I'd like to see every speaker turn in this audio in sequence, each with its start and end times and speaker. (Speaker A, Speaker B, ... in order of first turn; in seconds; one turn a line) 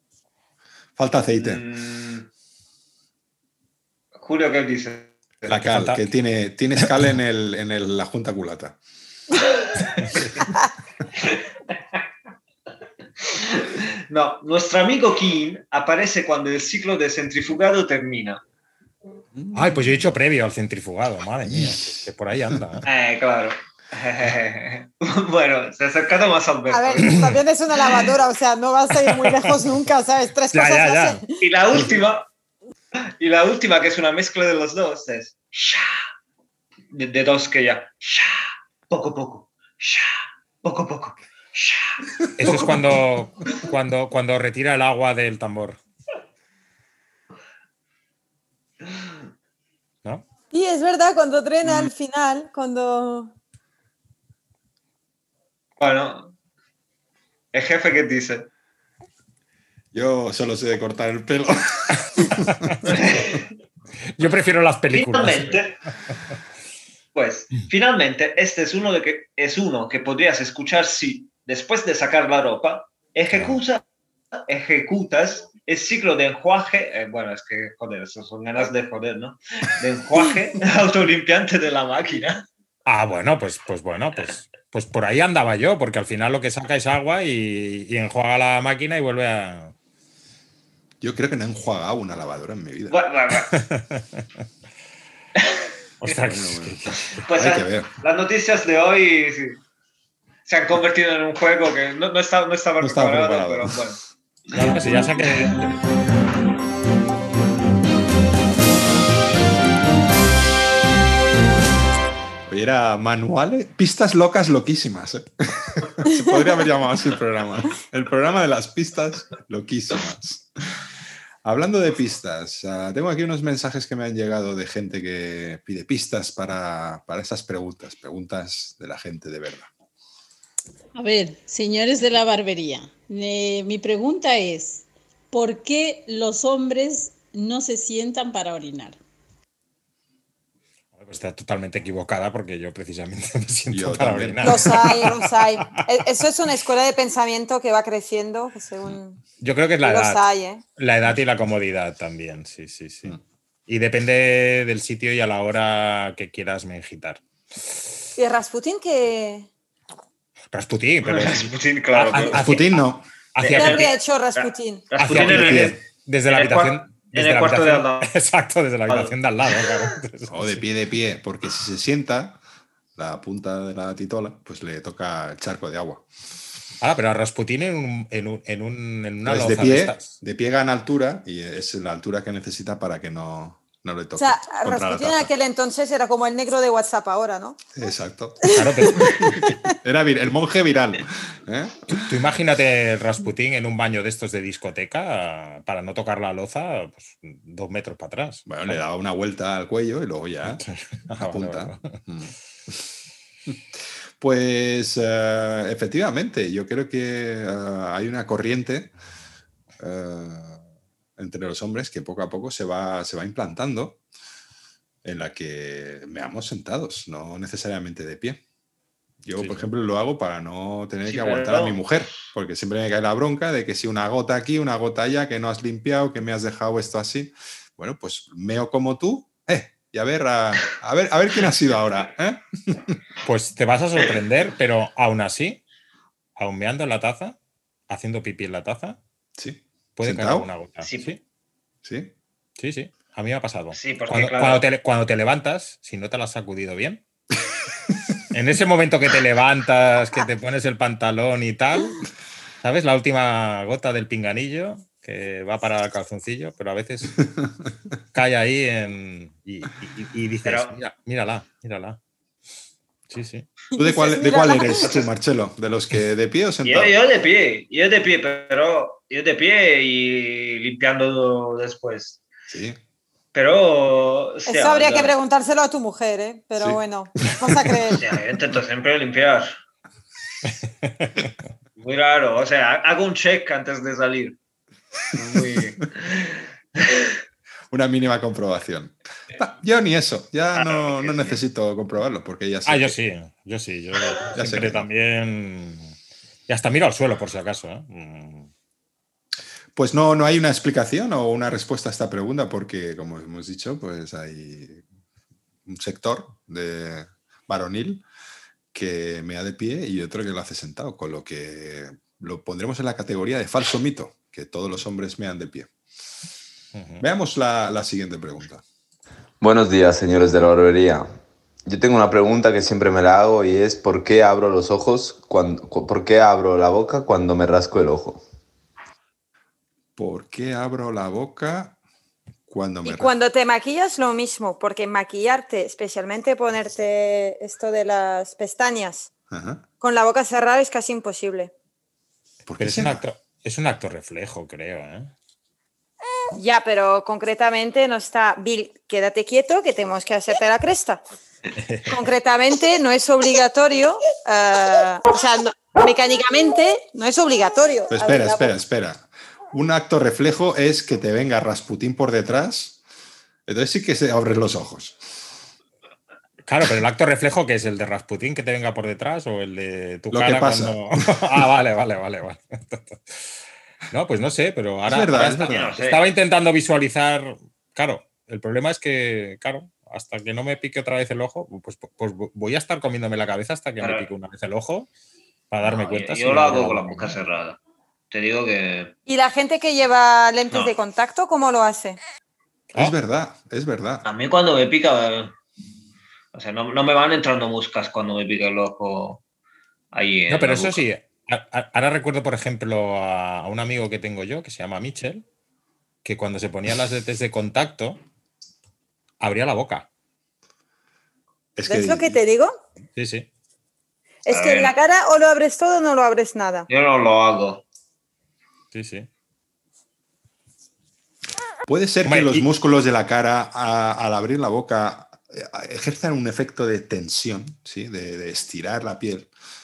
Speaker A: 1.0-1.6
Speaker B: 1.3-2.3
Speaker B: 4.2-5.6
Speaker A: 5.5-8.8
Speaker C: 5.6-6.0
Speaker B: 13.2-18.4
Speaker A: 19.3-20.1
Speaker C: 19.5-22.8
Speaker A: 21.4-22.8
Speaker B: 22.8-27.3
Speaker D: 26.7-31.4
Speaker C: 29.0-29.6
Speaker C: 30.5-31.2
Speaker B: 31.4-32.3
Speaker B: 33.2-36.0
Speaker B: 36.9-43.0
Speaker C: 42.4-45.8
Speaker D: 50.5-53.3
Speaker B: 55.8-56.3
Speaker B: 57.5-58.5
Speaker A: 59.9-63.0
Speaker C: 62.5-62.8
Speaker B: 62.9-63.4
Speaker C: 64.2-65.7
Speaker B: 64.9-65.7
Speaker B: 67.1-73.8
Speaker B: 74.5-82.4
Speaker C: 82.8-89.7
Speaker A: 91.0-93.0
Speaker B: 92.9-93.5
Speaker C: 93.5-94.2
Speaker B: 95.3-95.7
Speaker C: 96.0-97.1
Speaker A: 96.2-97.9
Speaker B: 97.1-99.6
Speaker B: 100.5-104.0
Speaker A: 102.8-103.8
Speaker C: 104.5-105.8
Speaker B: 105.2-105.5
Speaker A: 112.5-120.5
Speaker A: 121.4-129.7
Speaker E: 130.9-139.0
Speaker C: 141.0-145.7
Speaker A: 143.7-145.1
Speaker D: 144.4-149.2
Speaker C: 149.4-150.2
Speaker D: 149.8-150.6
Speaker C: 150.8-157.2
Speaker D: 158.2-159.5
Speaker C: 160.5-162.8
Speaker B: 161.0-162.6
Speaker A: 162.3-163.1
Speaker C: 163.3-163.9
Speaker B: 163.4-165.8
Speaker D: 163.6-164.9
Speaker C: 165.0-170.6
Speaker A: 165.1-165.8
Speaker B: 166.3-168.1
Speaker B: 168.9-169.8
Speaker A: 170.3-172.4
Speaker A: 172.9-176.0
Speaker C: 176.8-180.1
Speaker A: 179.2-185.3
Speaker D: 184.2-187.6
Speaker A: 187.7-192.0
Speaker C: 188.5-189.2
Speaker D: 189.0-189.7
Speaker C: 191.9-198.8
Speaker A: 198.4-202.8
Speaker C: 200.6-201.9
Speaker A: 203.5-208.9
Speaker A: 209.8-210.6
Speaker A: 211.2-214.0
Speaker A: 215.0-218.4
Speaker A: 219.2-233.0
Speaker C: 219.3-219.7
Speaker B: 221.0-222.1
Speaker C: 233.2-235.6
Speaker C: 236.4-237.3
Speaker C: 237.9-239.0
Speaker A: 239.4-240.5
Speaker C: 240.0-241.2
Speaker B: 240.8-241.1
Speaker A: 241.8-242.1
Speaker C: 242.6-247.0
Speaker B: 243.7-244.6
Speaker C: 248.3-252.0
Speaker C: 252.6-257.2
Speaker C: 258.1-262.0
Speaker B: 260.4-260.7
Speaker C: 263.1-263.5
Speaker D: 263.7-264.8
Speaker A: 263.8-266.9
Speaker B: 264.8-265.1
Speaker B: 266.6-272.2
Speaker A: 272.5-272.8
Speaker B: 273.3-275.1
Speaker D: 274.5-278.0
Speaker A: 276.6-277.9
Speaker B: 277.9-279.5
Speaker C: 280.8-281.3
Speaker B: 281.8-284.4
Speaker B: 285.1-287.1
Speaker A: 285.2-285.7
Speaker A: 287.7-293.0
Speaker B: 290.5-291.4
Speaker C: 292.6-295.9
Speaker A: 294.3-294.9
Speaker C: 296.5-298.5
Speaker A: 299.7-304.8
Speaker A: 305.6-308.0
Speaker A: 308.7-315.7
Speaker C: 316.7-317.0
Speaker A: 317.0-318.6
Speaker F: 319.4-328.2
Speaker A: 329.9-331.8
Speaker A: 332.5-333.1
Speaker D: 332.8-339.1
Speaker A: 339.3-339.6
Speaker D: 339.8-341.5
Speaker A: 342.4-343.0
Speaker C: 342.6-345.1
Speaker D: 346.3-351.0
Speaker C: 351.6-352.0
Speaker D: 351.9-358.5
Speaker A: 357.9-362.8
Speaker A: 363.5-365.0
Speaker C: 366.4-373.3
Speaker A: 370.1-371.4
Speaker C: 373.9-384.9
Speaker A: 374.8-375.8
Speaker B: 375.4-376.0
Speaker B: 383.8-384.1
Speaker C: 385.5-387.2
Speaker B: 385.6-387.6
Speaker B: 388.1-388.9
Speaker D: 389.1-392.0
Speaker A: 392.7-394.1
Speaker B: 394.0-395.3
Speaker B: 396.3-399.2
Speaker B: 399.9-400.9
Speaker C: 400.3-405.2
Speaker C: 406.0-408.0
Speaker C: 409.2-409.9
Speaker A: 411.6-412.2
Speaker D: 411.7-412.5
Speaker C: 412.9-413.3
Speaker D: 414.2-416.7
Speaker B: 414.3-414.7
Speaker B: 416.7-417.6
Speaker C: 418.7-419.1
Speaker A: 421.7-429.3
Speaker C: 422.0-422.4